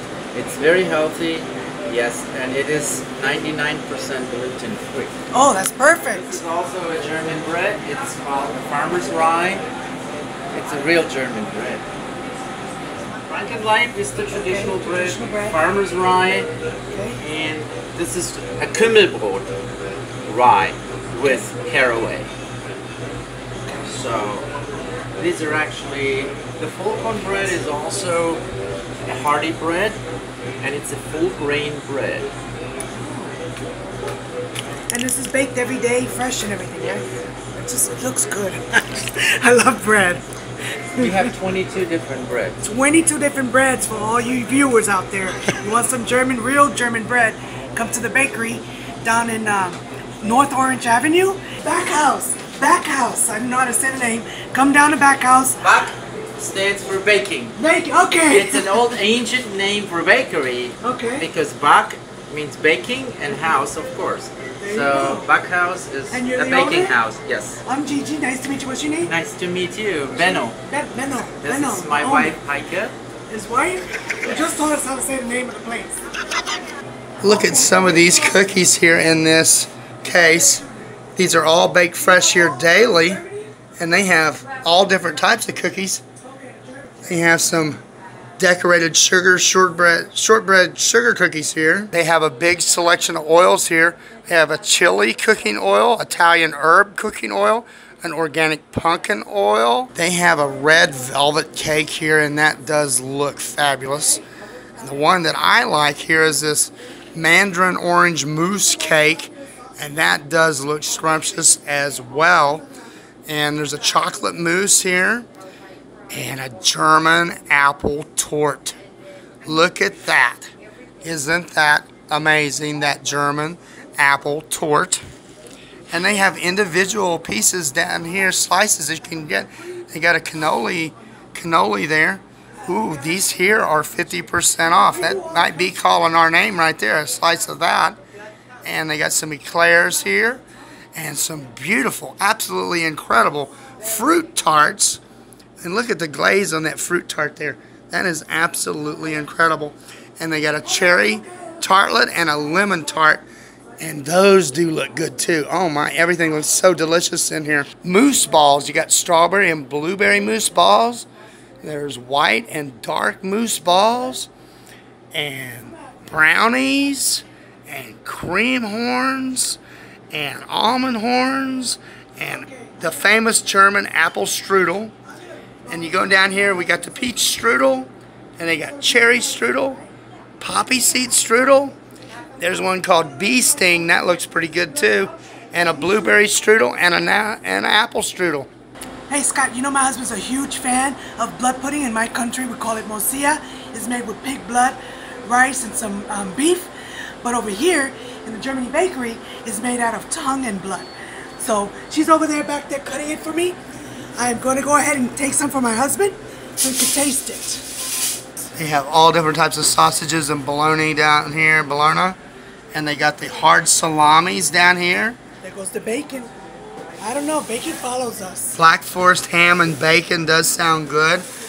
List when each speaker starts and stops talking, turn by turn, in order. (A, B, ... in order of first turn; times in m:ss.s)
0:00.3-0:05.2 A
0:05.3-0:06.4 B
0:06.1-0:09.6 A
0:10.5-0:11.9 A
0:13.3-0:16.5 A
0:14.3-0:15.6 B
0:16.9-0:17.2 B
0:17.2-0:19.5 A
0:20.2-0:22.3 A
0:23.8-0:24.5 A
0:25.2-0:28.4 A
0:29.0-0:30.0 A
0:30.6-0:32.3 A
0:32.9-0:33.4 B
0:34.9-0:37.1 B
0:37.6-0:40.2 B
0:40.9-0:41.3 B
0:41.0-0:42.6 A
0:42.6-0:55.6 B
0:55.6-0:57.6 A
0:57.6-0:58.8 B
0:58.2-1:07.6 A
1:00.8-1:01.3 B
1:04.6-1:05.3 B
1:06.1-1:07.0 B
1:07.6-1:09.1 B
1:09.0-1:10.6 A
1:10.2-1:12.4 B
1:11.4-1:13.0 A
1:13.3-1:16.1 B
1:17.2-1:20.6 C
1:21.2-1:23.2 C
1:22.6-1:23.2 B
1:23.8-1:26.0 C
1:26.2-1:27.1 B
1:27.1-1:27.8 C
1:28.4-1:44.2 C
1:44.8-1:52.7 C
1:53.3-1:55.3 C
1:56.1-1:58.8 C
1:59.4-2:00.5 C
2:01.0-2:05.0 C
2:05.9-2:18.0 C
2:15.1-2:15.4 B
2:18.6-2:20.4 C
2:21.0-2:25.0 C
2:25.6-2:33.2 C
2:33.8-2:41.1 C
2:41.6-2:44.3 C
2:45.1-2:49.6 C
2:50.1-2:55.0 C
2:55.7-2:59.8 C
3:00.4-3:01.8 C
3:02.4-3:08.5 C
3:09.1-3:16.7 B
3:17.2-3:23.6 B
3:24.2-3:27.7 B
3:28.6-3:32.2 C
3:32.7-3:35.2 C
3:35.4-3:36.3 B
3:37.0-3:38.6 B
3:38.6-3:41.3 C